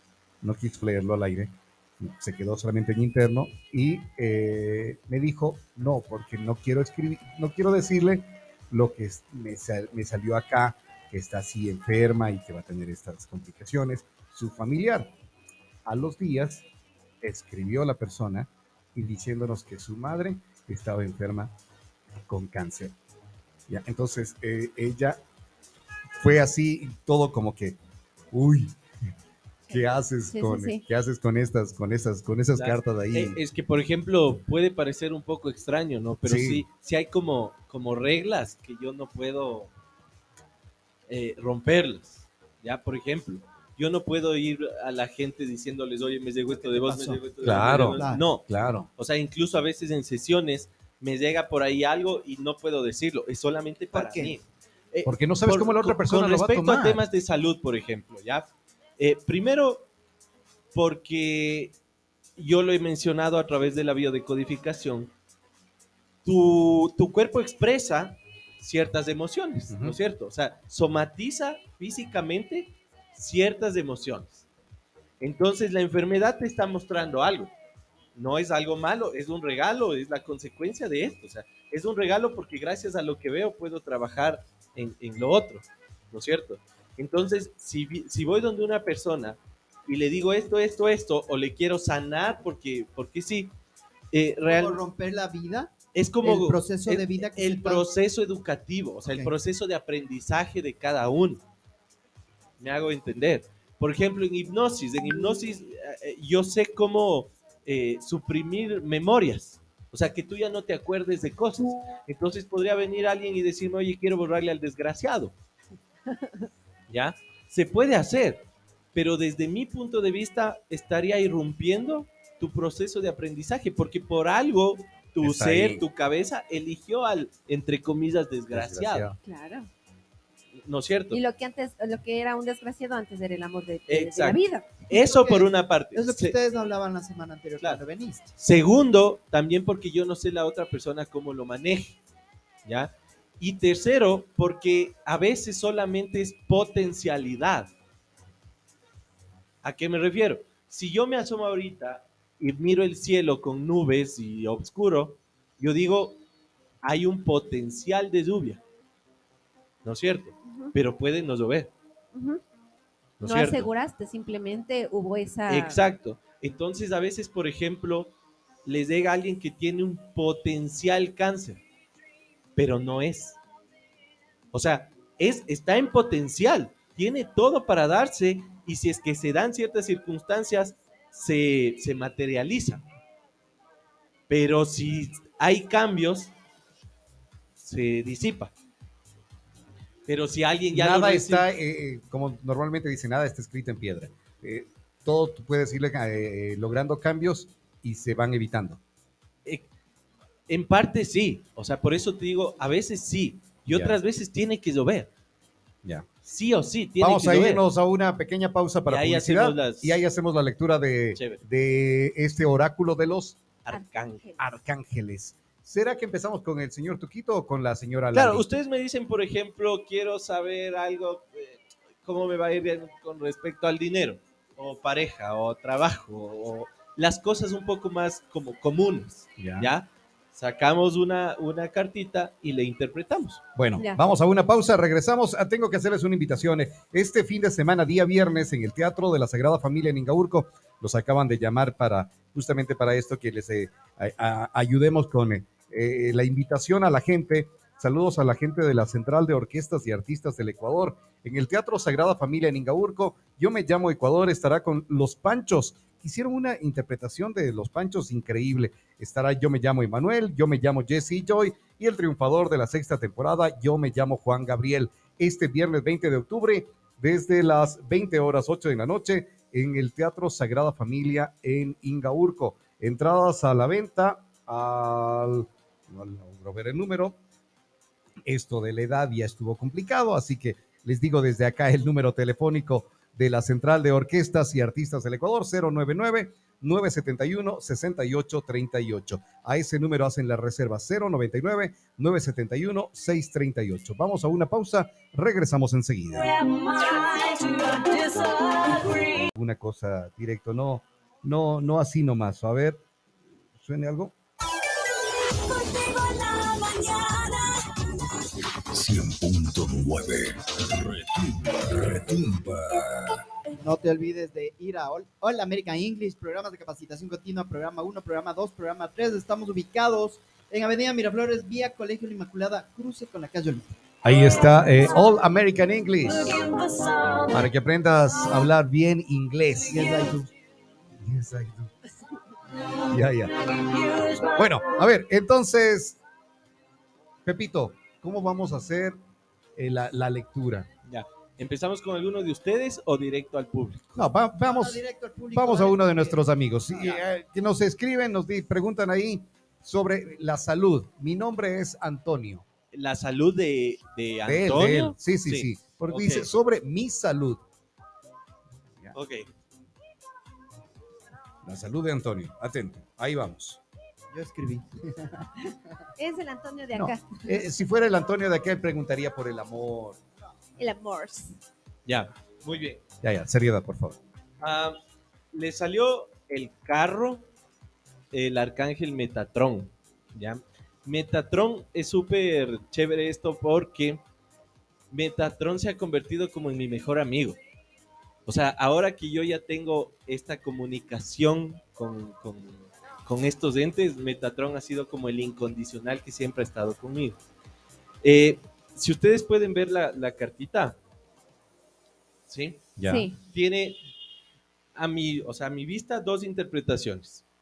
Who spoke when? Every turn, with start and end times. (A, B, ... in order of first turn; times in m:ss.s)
0:00.4-0:15.1 A
0:15.8-0:16.6 A
0:17.2-0:21.5 A
0:22.3-0:23.0 A
0:23.7-0:25.2 A
0:26.2-0:27.8 A
0:28.3-0:28.8 A
0:29.7-0:30.8 B
0:29.7-0:33.4 A
0:32.5-0:39.7 C
0:36.2-0:36.6 A
0:41.1-0:59.9 C
0:46.5-0:48.2 D
0:47.4-0:48.9 A
0:53.9-0:54.4 D
0:55.0-0:57.0 A
1:00.7-1:01.7 C
1:02.4-1:05.1 C
1:06.2-1:14.4 C
1:09.7-1:10.0 A
1:15.2-1:17.5 C
1:18.1-1:33.5 C
1:34.1-1:34.8 C
1:34.4-1:37.8 D
1:35.9-1:41.4 C
1:42.6-1:55.3 C
1:56.9-2:09.1 C
2:05.2-2:05.8 A
2:08.5-2:09.2 A
2:09.2-2:09.7 B
2:10.6-2:11.2 C
2:11.1-2:14.7 B
2:13.9-2:16.4 C
2:14.9-2:18.3 D
2:18.4-2:22.0 C
2:22.6-2:27.7 C
2:29.6-2:36.2 C
2:36.8-2:38.6 C
2:39.8-2:41.7 C
2:40.4-2:40.7 B
2:42.1-2:42.4 B
2:43.2-2:43.7 C
2:43.2-2:45.8 B
2:45.5-2:48.1 C
2:48.6-2:51.6 C
2:52.6-2:53.4 C
2:54.5-3:02.8 C
3:04.3-3:06.3 C
3:07.6-3:08.5 C
3:10.1-3:11.5 C
3:10.7-3:18.8 A
3:20.5-3:25.1 C
3:23.7-3:24.0 A
3:26.2-3:27.6 C
3:27.0-3:33.4 A
3:28.9-3:30.0 C
3:33.6-3:34.2 C
3:33.7-3:34.4 B
3:34.4-3:38.4 A
3:38.1-3:53.4 C
3:49.4-3:49.7 A
3:53.6-4:37.2 A
4:38.2-4:56.4 A
4:57.5-4:57.9 E
4:58.7-4:59.0 E
4:59.3-5:02.8 A
5:03.6-5:04.1 A
5:05.6-5:13.2 E
5:13.6-5:23.7 D
5:24.0-5:26.6 A
5:27.2-5:30.1 A
5:29.6-5:30.3 D
5:31.0-5:31.7 A
5:32.8-5:36.0 A
5:37.2-5:39.0 A
5:39.6-5:40.7 A
5:40.9-5:44.0 C
5:43.9-5:52.4 A
5:44.4-5:47.0 D
5:52.7-5:56.3 C
5:54.2-5:57.4 A
5:58.9-5:59.3 C
6:01.4-6:03.6 A
6:04.1-6:05.6 D
6:06.0-6:07.2 B
6:06.7-6:10.0 A
6:10.6-6:11.4 B
6:11.8-6:12.8 C
6:13.0-6:14.0 A
6:14.4-6:14.8 C
6:15.3-6:17.3 C
6:18.1-6:24.0 C
6:24.9-6:27.4 C
6:28.2-6:37.2 C
6:38.0-6:40.8 C
6:42.3-6:42.6 C
6:42.8-6:43.1 A
6:42.8-6:43.2 B
6:43.2-6:43.8 C
6:44.7-6:47.2 C